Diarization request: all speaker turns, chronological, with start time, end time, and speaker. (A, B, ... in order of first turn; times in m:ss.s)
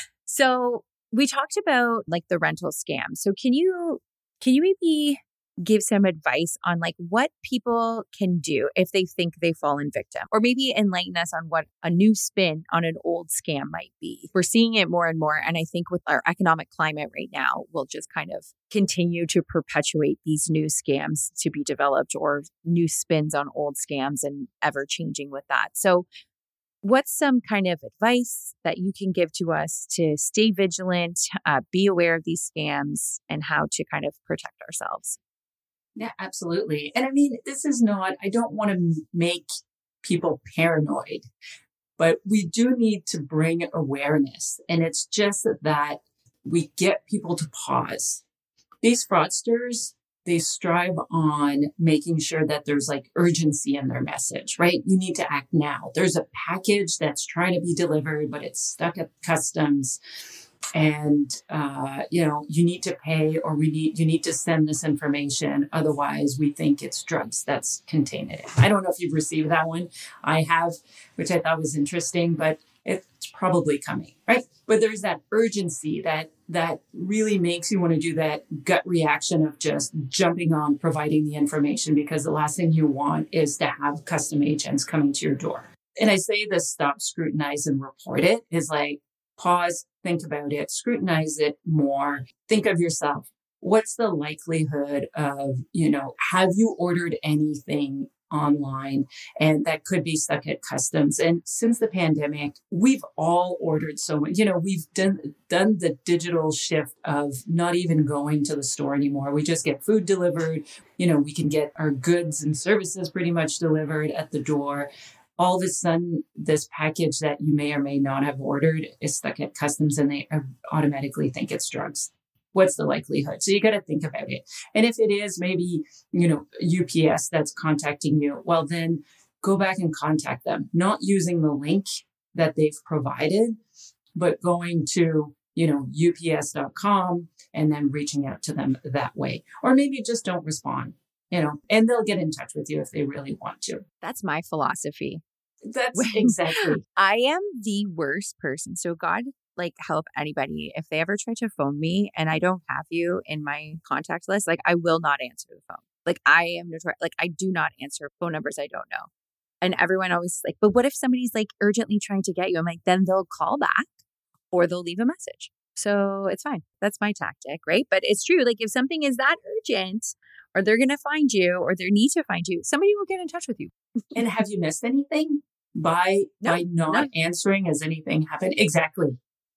0:00.2-0:26.0 A
0:26.8-0:35.2 A
0:36.0-0:39.5 B
0:40.0-0:41.2 B
0:42.0-0:48.2 B
0:48.8-1:00.0 B
1:00.8-2:13.6 B
2:14.1-2:23.8 B
2:24.0-2:25.2 A
2:25.6-2:26.8 B
2:25.9-2:39.1 A
2:39.6-2:43.9 A
2:44.5-2:53.7 A
2:54.1-2:59.2 B
2:56.4-2:57.1 A